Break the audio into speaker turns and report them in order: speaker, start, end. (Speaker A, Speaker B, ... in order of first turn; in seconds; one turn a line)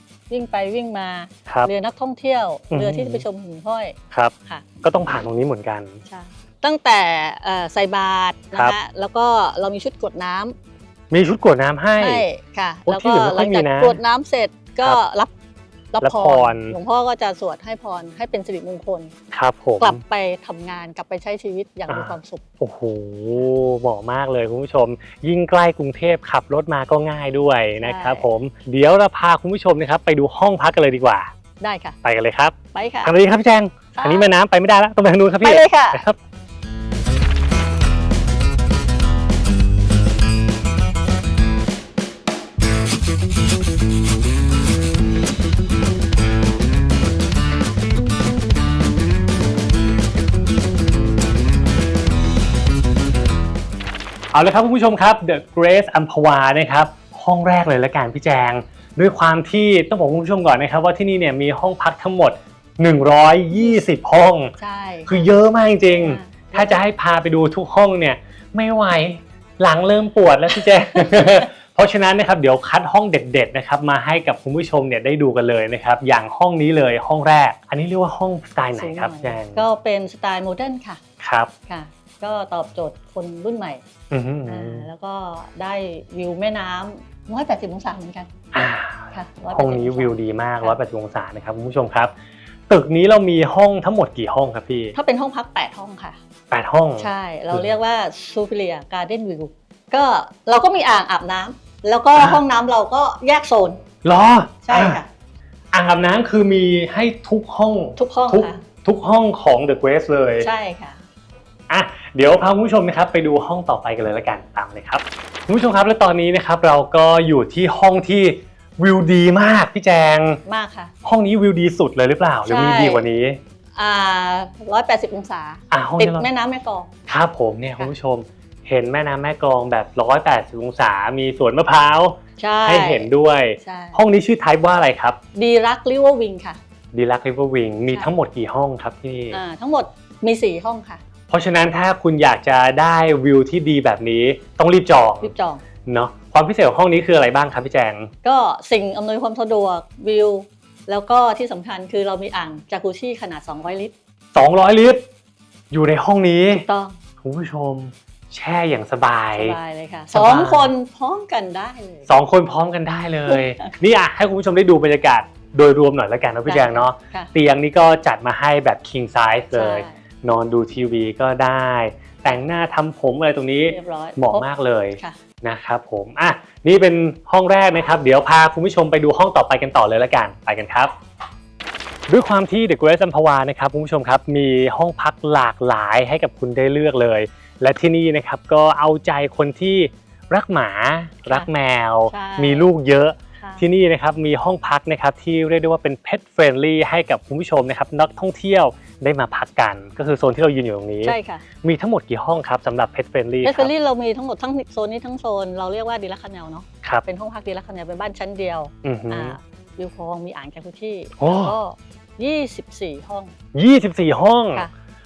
Speaker A: 0.3-4.0
Speaker B: 2.7-3.2
Speaker B: 4.1-6.0
Speaker A: 6.1-10.6
Speaker B: 11.1-12.2
Speaker A: 12.0-15.3
Speaker B: 12.9-14.0
Speaker A: 15.9-19.1
Speaker B: 16.0-16.8
Speaker B: 19.3-20.0
Speaker A: 19.8-22.4
Speaker B: 21.9-31.3
Speaker A: 27.8-28.3
Speaker A: 31.6-32.0
Speaker B: 32.0-36.2
Speaker A: 32.7-33.1
Speaker A: 34.0-34.3
Speaker A: 35.4-36.0
Speaker B: 54.3-64.5
Speaker A: 63.5-63.8
Speaker A: 64.6-65.3
Speaker B: 65.1-79.6
Speaker A: 65.8-66.8
Speaker A: 71.0-71.5
Speaker A: 78.8-81.0
Speaker B: 81.2-81.5
Speaker A: 81.7-83.8
Speaker B: 84.1-84.9
Speaker A: 84.5-88.3
Speaker B: 88.5-92.1
Speaker A: 89.1-90.8
Speaker B: 92.7-95.0
Speaker A: 94.9-96.2
Speaker B: 96.5-97.7
Speaker A: 97.0-103.8
Speaker B: 104.0-105.0
Speaker A: 104.7-105.1
Speaker B: 105.7-110.5
Speaker A: 108.0-108.6
Speaker A: 110.4-111.0
Speaker B: 111.7-120.4
Speaker A: 120.5-120.9
Speaker B: 121.0-123.4
Speaker A: 122.5-123.0
Speaker A: 123.8-126.9
Speaker B: 125.7-126.3
Speaker B: 127.1-135.2
Speaker A: 132.4-133.1
Speaker A: 133.6-134.0
Speaker A: 135.3-136.6
Speaker B: 136.9-139.4
Speaker A: 139.3-141.0
Speaker B: 141.3-145.3
Speaker A: 145.2-145.6
Speaker B: 145.9-148.1
Speaker A: 148.2-153.9
Speaker B: 154.3-155.0
Speaker B: 155.7-156.7
Speaker A: 156.5-157.0
Speaker B: 157.2-159.6
Speaker A: 159.3-162.1
Speaker B: 160.1-160.7
Speaker B: 162.1-180.9
Speaker A: 163.3-163.7
Speaker A: 166.5-167.3
Speaker A: 169.5-169.9
Speaker A: 173.7-175.2
Speaker B: 182.1-203.7
Speaker A: 192.1-192.7
Speaker A: 201.1-201.4
Speaker A: 203.4-213.3
Speaker B: 208.8-209.4
Speaker B: 211.2-211.6
Speaker B: 213.5-214.7